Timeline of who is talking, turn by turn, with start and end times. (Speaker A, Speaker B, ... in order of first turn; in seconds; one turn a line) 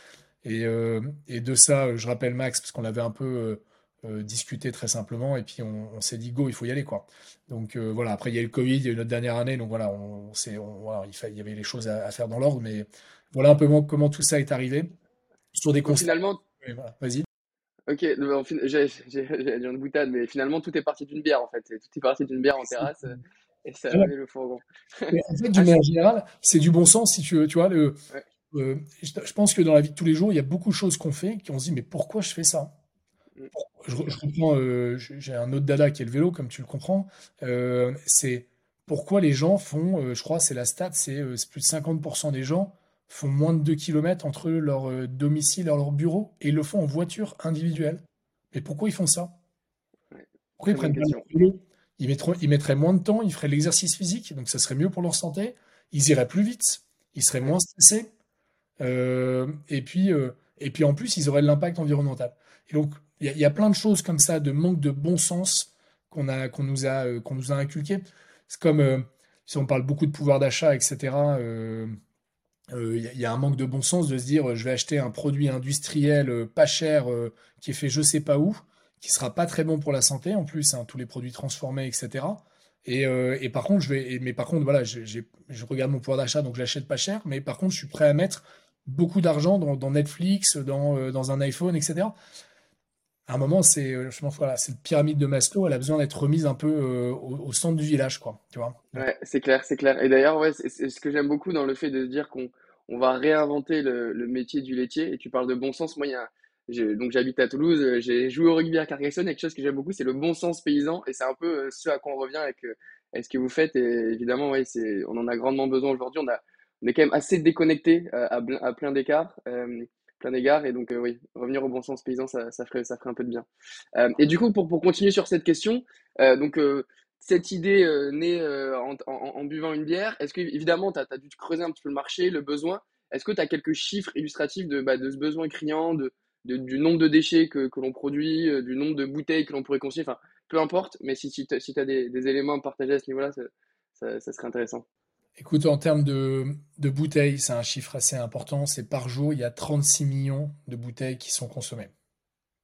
Speaker A: 0.4-14.9
Speaker A: 15.5-17.2
Speaker B: 15.8-16.4
Speaker B: 17.9-25.8
Speaker A: 25.1-28.0
Speaker A: 28.5-32.7
Speaker A: 33.5-48.0
Speaker A: 48.5-49.3
Speaker B: 50.1-51.2
Speaker A: 50.6-58.1
Speaker A: 58.8-71.9
Speaker A: 72.7-92.1
Speaker A: 93.3-99.0
Speaker B: 98.9-144.8
Speaker A: 145.4-151.9